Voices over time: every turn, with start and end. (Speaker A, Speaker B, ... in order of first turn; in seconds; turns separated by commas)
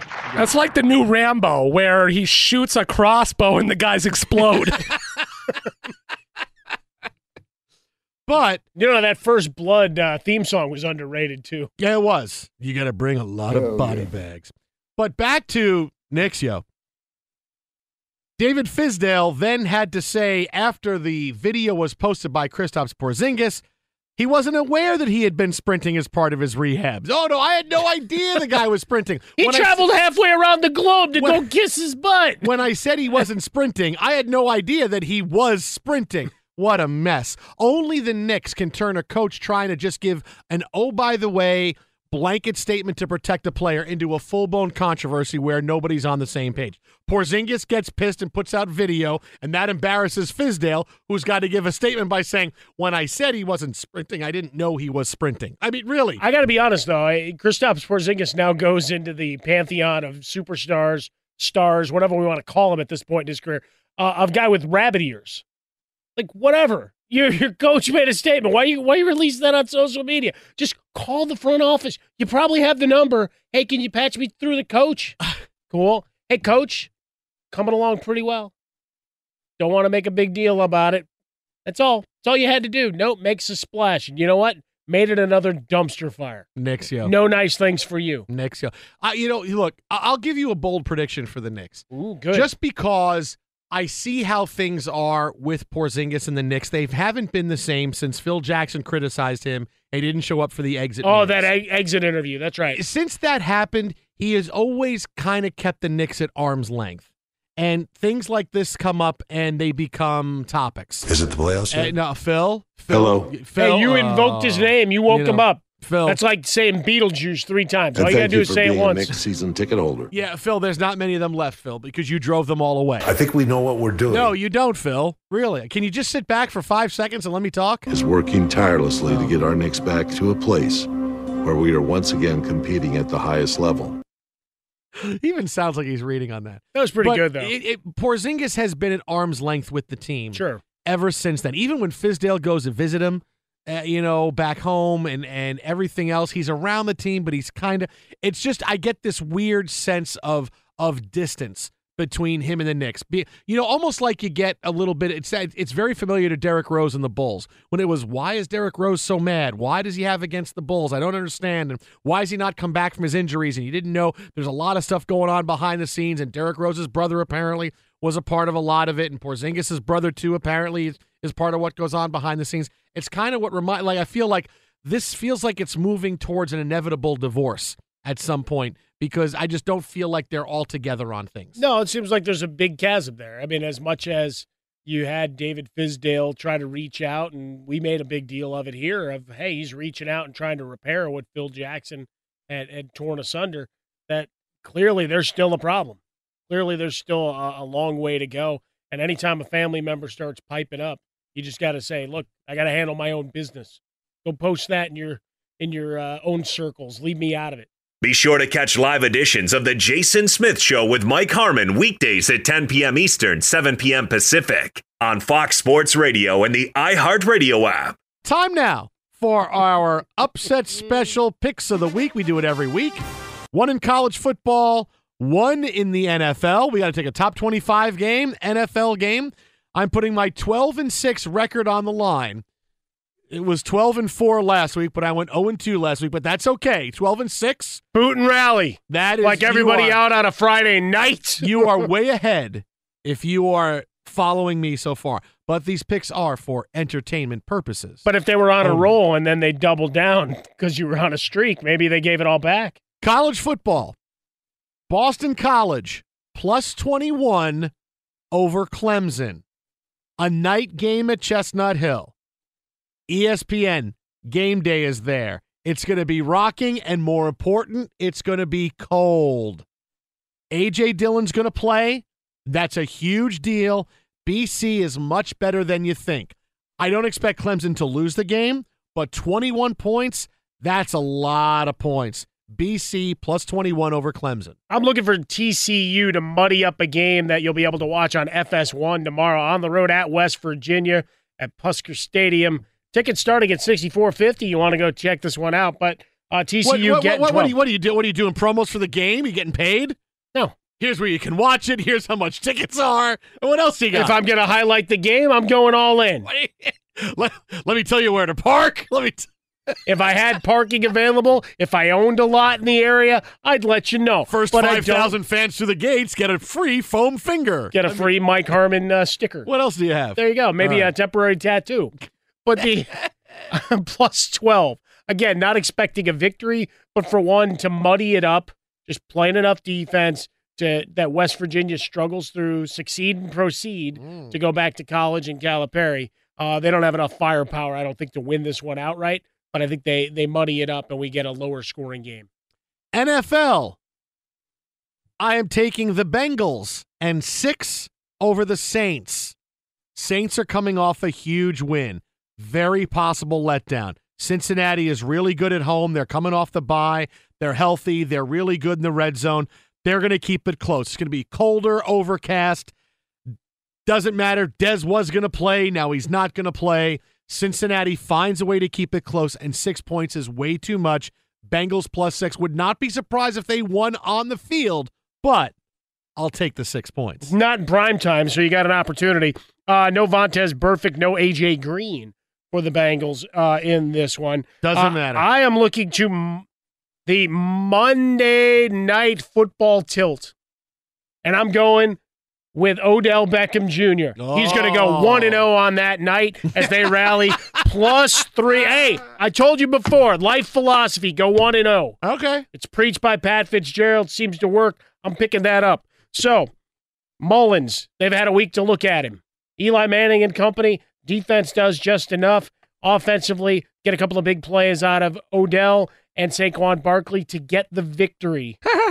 Speaker A: 0.3-4.9, Speaker B: 8.3-8.6, Speaker C: 8.8-11.7, Speaker B: 11.8-16.6, Speaker B: 18.4-23.6, Speaker B: 24.2-29.9, Speaker C: 29.4-32.5, Speaker B: 31.2-31.5, Speaker B: 32.4-56.2, Speaker C: 56.2-65.4, Speaker C: 66.2-75.2, Speaker C: 75.7-76.9, Speaker C: 77.5-78.5, Speaker C: 79.6-81.1, Speaker C: 81.7-86.5, Speaker B: 86.6-87.2, Speaker C: 87.0-88.3, Speaker B: 88.3-101.5, Speaker C: 91.9-92.5, Speaker C: 101.0-102.8, Speaker B: 102.7-111.1, Speaker D: 111.1-112.0, Speaker B: 111.7-116.2, Speaker D: 112.9-113.3, Speaker C: 113.6-119.1, Speaker D: 117.9-120.1, Speaker B: 120.1-123.1, Speaker D: 123.0-124.3, Speaker B: 124.1-127.9, Speaker D: 127.9-130.9, Speaker D: 131.4-134.0, Speaker B: 134.9-181.6, Speaker C: 136.7-137.5, Speaker C: 140.3-140.6, Speaker C: 181.6-207.7, Speaker E: 208.0-218.0, Speaker B: 218.2-232.4, Speaker B: 233.3-237.8, Speaker C: 237.9-241.8, Speaker B: 238.9-240.0, Speaker B: 241.4-248.0, Speaker C: 248.1-252.8, Speaker B: 248.6-248.9, Speaker B: 253.0-254.0, Speaker B: 254.9-257.7, Speaker B: 258.3-259.4, Speaker B: 260.2-262.1, Speaker B: 263.1-269.6, Speaker B: 270.5-284.6, Speaker C: 284.7-297.6, Speaker B: 296.6-300.0, Speaker B: 300.8-304.2, Speaker C: 303.9-306.3, Speaker B: 306.3-309.7, Speaker C: 309.9-315.2, Speaker B: 314.3-318.1, Speaker C: 317.7-319.5, Speaker B: 319.4-320.9, Speaker C: 320.1-321.9, Speaker C: 322.4-342.3, Speaker B: 334.0-334.4, Speaker B: 342.9-343.8, Speaker B: 345.2-349.4, Speaker B: 349.9-362.7, Speaker B: 363.9-375.5, Speaker B: 376.2-377.3, Speaker C: 377.2-386.5, Speaker B: 384.6-385.3, Speaker C: 387.1-390.3, Speaker C: 391.2-392.0, Speaker C: 392.5-402.0, Speaker B: 394.2-395.4, Speaker B: 396.6-397.6, Speaker B: 402.0-402.5, Speaker C: 402.5-406.5, Speaker C: 407.2-418.6